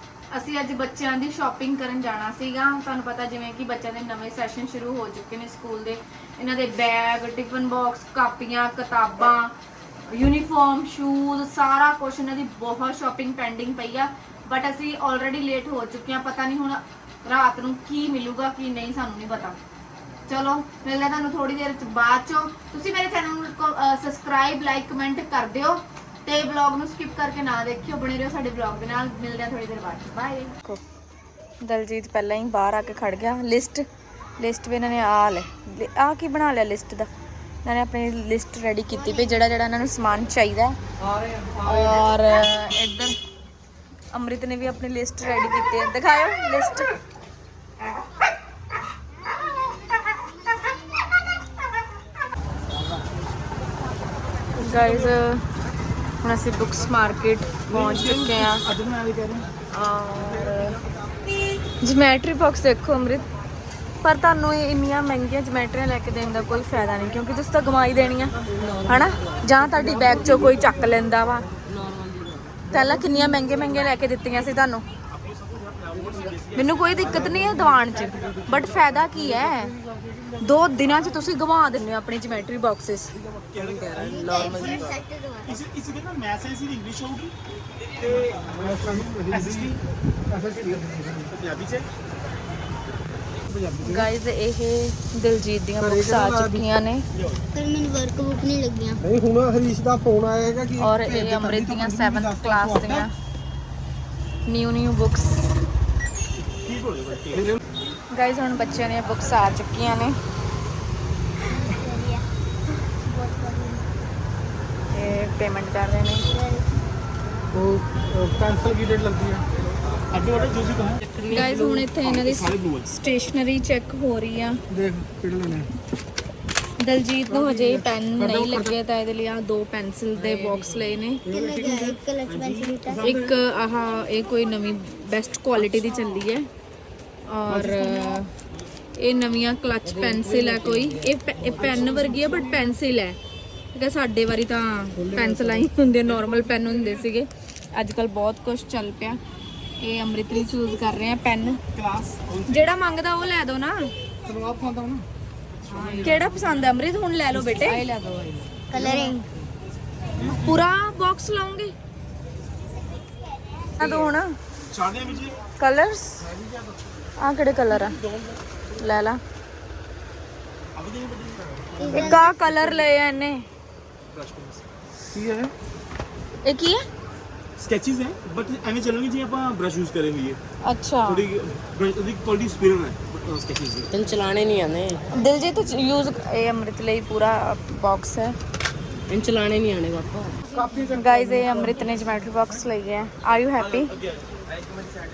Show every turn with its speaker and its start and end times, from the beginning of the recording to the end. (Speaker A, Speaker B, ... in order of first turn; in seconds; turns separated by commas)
Speaker A: 0.3-9.5, Speaker A: 10.1-19.6, Speaker A: 20.3-30.8, Speaker A: 31.6-33.9, Speaker A: 34.4-37.1, Speaker A: 37.6-40.8, Speaker B: 41.0-42.0, Speaker A: 41.6-43.1, Speaker A: 44.1-46.9, Speaker C: 50.5-51.1, Speaker A: 54.5-55.4, Speaker D: 54.8-55.1, Speaker A: 56.2-58.6, Speaker D: 57.7-59.5, Speaker A: 59.7-60.8, Speaker A: 61.8-63.3, Speaker A: 64.0-71.5, Speaker E: 68.6-69.0, Speaker B: 69.8-70.7, Speaker E: 71.7-72.5, Speaker A: 72.7-74.8, Speaker D: 75.1-77.4, Speaker A: 76.5-79.8, Speaker B: 79.3-80.0, Speaker A: 80.4-83.1, Speaker D: 83.5-87.3, Speaker C: 83.9-85.6, Speaker E: 84.0-85.0, Speaker D: 87.9-89.8, Speaker B: 88.4-89.8, Speaker B: 90.3-91.3, Speaker D: 90.4-91.9, Speaker B: 93.5-94.1, Speaker A: 93.8-97.0, Speaker B: 95.8-96.7, Speaker C: 97.5-99.0, Speaker B: 99.0-103.0, Speaker A: 100.8-103.1, Speaker A: 104.5-105.5, Speaker D: 106.5-107.6, Speaker A: 108.1-110.2, Speaker C: 111.5-112.2, Speaker C: 112.9-113.8, Speaker A: 114.9-116.3, Speaker C: 116.2-116.7, Speaker B: 117.5-119.4, Speaker D: 120.1-122.9, Speaker E: 121.0-121.6, Speaker A: 121.3-124.6, Speaker B: 124.7-125.7, Speaker A: 126.8-131.2, Speaker B: 127.3-128.8, Speaker E: 130.1-131.0, Speaker C: 131.3-133.0, Speaker D: 131.3-133.3, Speaker A: 133.0-136.5, Speaker A: 137.3-138.3, Speaker D: 137.6-138.2, Speaker A: 139.0-143.2, Speaker E: 139.8-142.1, Speaker B: 141.6-142.4, Speaker A: 143.7-149.2, Speaker B: 145.0-145.7, Speaker A: 149.8-151.6, Speaker D: 151.7-152.7, Speaker A: 152.4-153.9, Speaker B: 154.2-155.1, Speaker E: 155.7-156.6, Speaker D: 155.7-156.2, Speaker A: 156.0-157.8, Speaker E: 157.3-159.3, Speaker C: 158.7-159.2, Speaker A: 160.2-161.7, Speaker C: 163.0-164.1, Speaker A: 163.8-164.3, Speaker D: 164.7-165.4, Speaker A: 165.6-166.3, Speaker A: 167.2-168.0, Speaker D: 168.1-168.3, Speaker A: 168.8-169.2, Speaker D: 170.8-172.2, Speaker C: 171.8-172.6, Speaker A: 171.9-173.5, Speaker D: 174.1-174.6, Speaker B: 175.1-175.5, Speaker A: 176.4-176.8, Speaker D: 177.6-180.4, Speaker A: 180.6-181.3, Speaker D: 181.0-183.9, Speaker E: 183.9-185.0, Speaker A: 185.1-188.3, Speaker E: 189.1-190.4, Speaker B: 190.5-192.1, Speaker A: 190.9-193.9, Speaker D: 194.0-194.4